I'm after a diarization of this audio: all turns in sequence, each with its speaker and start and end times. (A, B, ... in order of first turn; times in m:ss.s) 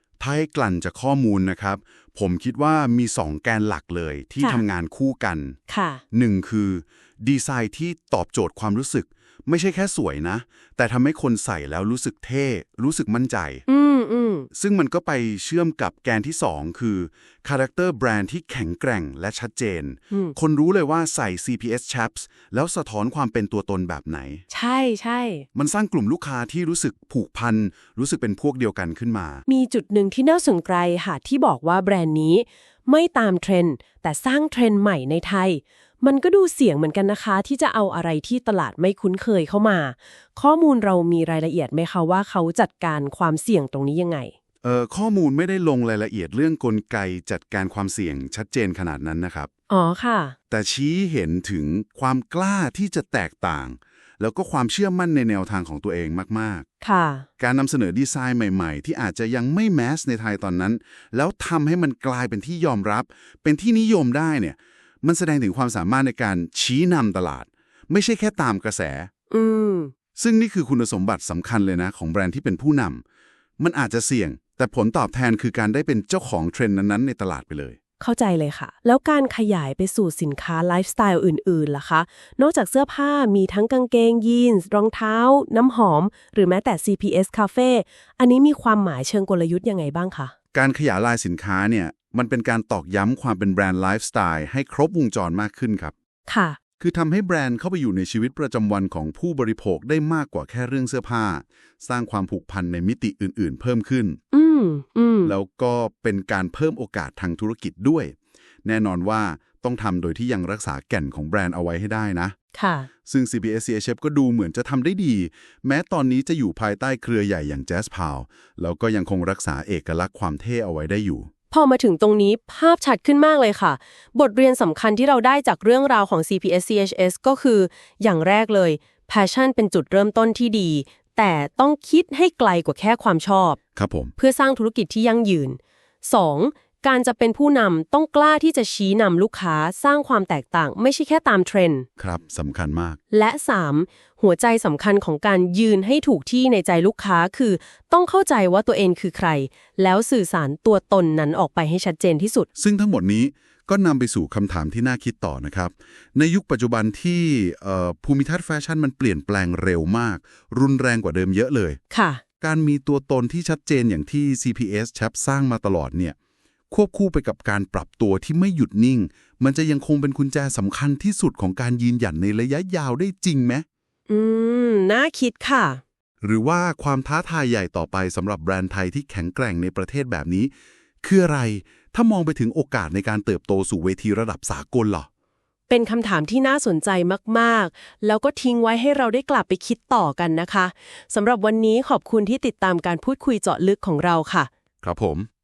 0:00.2-0:05.6 A
0:05.7-0:06.0 B
0:06.1-0:13.6 A
0:13.7-0:14.5 B
0:14.5-0:24.4 A
0:20.1-0:20.4 B
0:24.5-0:25.5 B
0:25.5-0:29.4 A
0:29.5-0:44.3 B
0:44.6-0:49.5 A
0:49.7-0:50.4 B
0:50.5-0:56.7 A
0:56.8-0:57.3 B
0:57.4-1:09.1 A
1:09.3-1:09.9 B
1:10.2-1:13.0 A
1:13.6-1:17.8 A
1:18.0-1:30.3 B
1:30.5-1:35.9 A
1:36.3-1:36.6 B
1:36.8-1:44.2 A
1:44.3-1:45.3 B
1:45.3-1:52.4 A
1:52.6-1:52.9 B
1:53.1-2:01.3 A
2:01.5-2:13.6 B
2:13.8-2:14.1 A
2:14.2-2:21.9 B
2:22.0-2:23.0 A
2:23.1-2:32.5 B
2:32.6-2:41.8 A
2:41.9-2:42.2 B
2:42.4-2:46.2 A
2:46.7-2:53.6 A
2:54.1-2:55.8 B
2:56.2-3:00.5 A
3:01.0-3:05.1 A
3:05.7-3:14.5 B
3:14.8-3:15.3 A